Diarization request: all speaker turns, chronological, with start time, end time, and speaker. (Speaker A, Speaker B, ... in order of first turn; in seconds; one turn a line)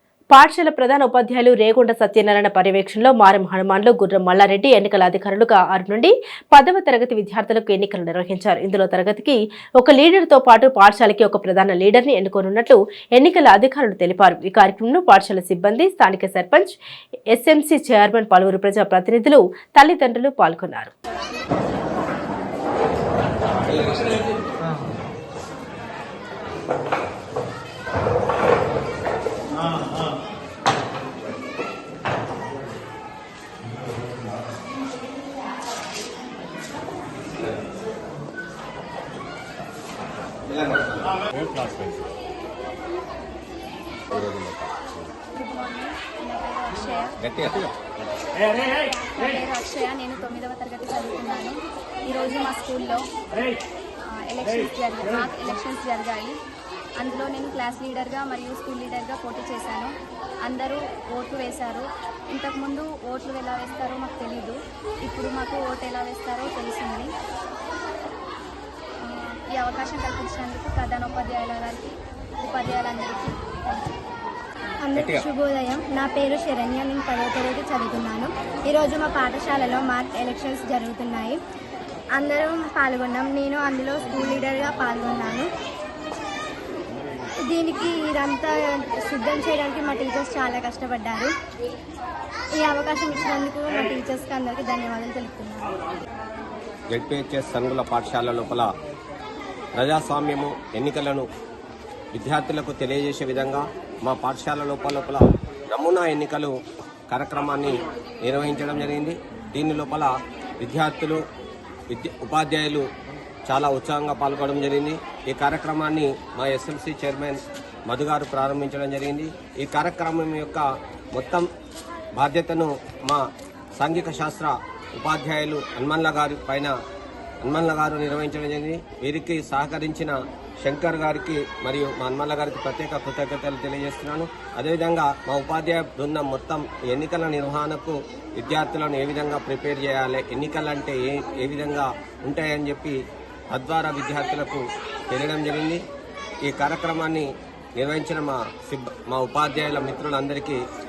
Speaker A: 0.3-16.8
Speaker A: 17.3-20.9
Speaker B: 40.5-41.2
Speaker B: 44.1-45.1
Speaker C: 45.3-47.2
Speaker B: 47.2-47.7
Speaker C: 48.9-53.0
Speaker C: 54.1-56.4
Speaker C: 57.0-67.1
Speaker C: 69.0-74.0
Speaker D: 74.8-81.4
Speaker B: 75.0-75.3
Speaker D: 82.2-85.5
Speaker D: 87.4-91.3
Speaker D: 92.6-95.8
Speaker B: 96.9-98.7
Speaker B: 99.8-101.3
Speaker B: 102.1-106.5
Speaker B: 107.1-111.2
Speaker B: 111.9-112.9
Speaker B: 113.5-121.5
Speaker B: 122.2-123.2
Speaker B: 123.8-126.7
Speaker B: 127.4-143.0
Speaker B: 143.5-145.8
Speaker B: 146.4-150.6